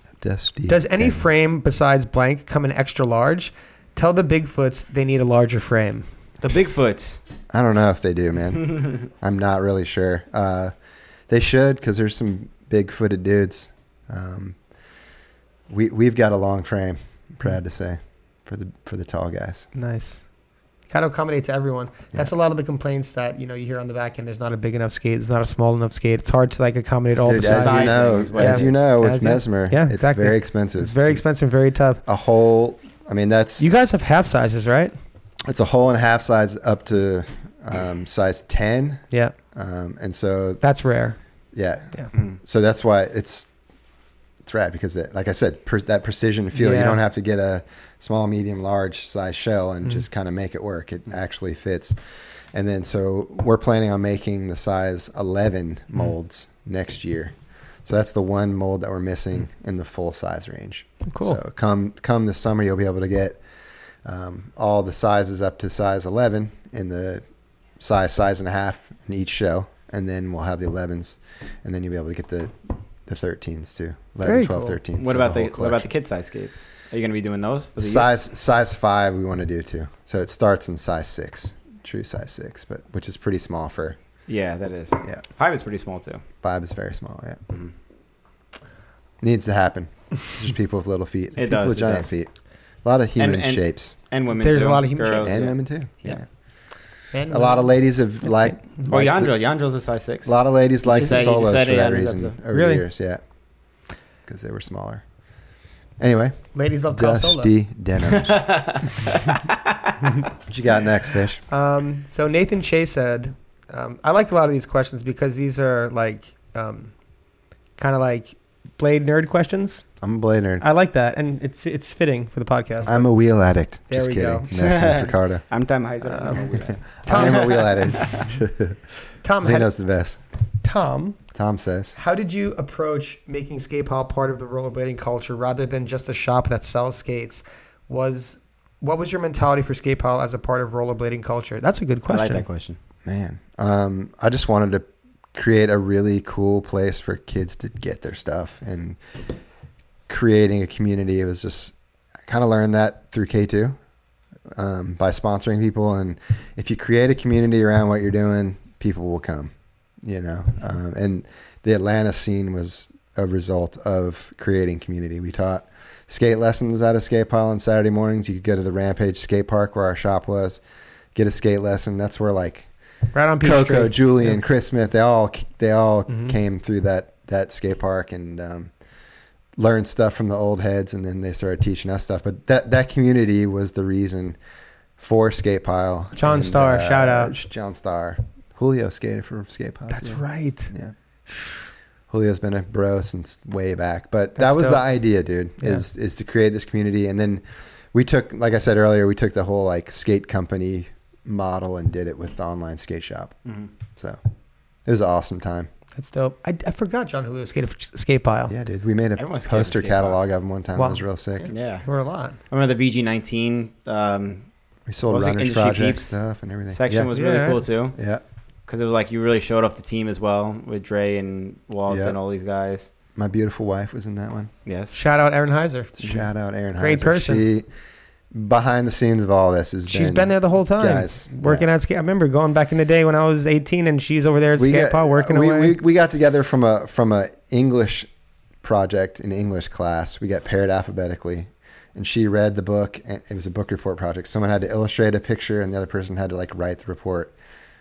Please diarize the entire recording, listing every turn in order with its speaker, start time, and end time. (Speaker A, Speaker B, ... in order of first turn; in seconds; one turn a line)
Speaker A: 0.2-1.2
Speaker B: 0.7-6.1
Speaker C: 6.4-7.2
Speaker A: 7.5-10.7
Speaker A: 11.3-14.6
Speaker A: 15.7-19.7
Speaker B: 19.8-20.2
Speaker B: 20.9-32.0
Speaker A: 27.2-31.2
Speaker C: 27.3-28.8
Speaker A: 32.1-33.7
Speaker B: 33.6-34.9
Speaker A: 35.5-40.6
Speaker B: 40.6-41.2
Speaker A: 41.5-43.5
Speaker A: 44.4-63.4
Speaker B: 46.5-47.0
Speaker B: 61.1-61.4
Speaker A: 64.0-67.2
Speaker A: 67.8-75.9
Speaker B: 74.2-74.8
Speaker C: 75.0-78.1
Speaker A: 77.8-84.0
Speaker C: 84.3-86.2
Speaker A: 86.4-87.4
Speaker A: 89.2-92.3
Speaker C: 91.4-92.1
Speaker A: 92.8-93.9
Speaker C: 93.2-96.2
Speaker B: 94.4-95.3
Speaker A: 95.2-96.2
Speaker B: 97.1-97.8
Speaker A: 97.3-99.3
Speaker B: 98.3-98.6
Speaker C: 98.9-102.3
Speaker A: 100.2-103.2
Speaker B: 102.5-102.8
Speaker A: 104.3-105.0
Speaker A: 106.0-108.5
Speaker B: 106.5-107.5
Speaker C: 108.1-110.0
Speaker A: 110.5-111.4
Speaker B: 111.5-116.9
Speaker B: 117.8-119.8
Speaker A: 120.0-120.7
Speaker B: 120.6-123.1
Speaker A: 122.9-125.4
Speaker B: 123.9-124.5
Speaker C: 124.5-128.3
Speaker B: 126.0-127.7
Speaker A: 126.3-128.8
Speaker B: 129.2-129.7
Speaker A: 129.4-130.2
Speaker B: 130.6-131.2
Speaker A: 131.3-132.0
Speaker B: 132.0-142.5
Speaker C: 142.1-142.8
Speaker A: 143.1-149.0
Speaker A: 150.1-151.7
Speaker A: 152.3-153.8
Speaker A: 154.5-170.6
Speaker A: 171.2-172.7
Speaker B: 173.1-174.4
Speaker A: 173.4-178.7
Speaker A: 179.6-184.4
Speaker A: 185.0-190.9
Speaker B: 186.2-187.3
Speaker B: 189.9-190.7
Speaker B: 191.3-191.6
Speaker A: 192.1-203.4
Speaker B: 194.4-194.8
Speaker A: 204.9-205.7
Speaker B: 206.0-208.5
Speaker A: 208.5-211.5
Speaker C: 209.2-210.2
Speaker B: 210.8-212.4
Speaker C: 211.5-211.8
Speaker C: 212.5-214.4
Speaker A: 214.9-217.1
Speaker C: 215.1-216.2
Speaker C: 216.7-218.0
Speaker B: 217.1-217.6
Speaker A: 217.9-218.2
Speaker C: 218.7-222.9
Speaker A: 221.9-222.2
Speaker A: 223.2-224.5
Speaker C: 224.7-224.9
Speaker B: 224.9-225.9
Speaker A: 226.0-227.7
Speaker B: 226.8-227.5
Speaker A: 228.3-231.7
Speaker B: 229.9-235.8
Speaker A: 234.5-238.1
Speaker A: 238.6-247.3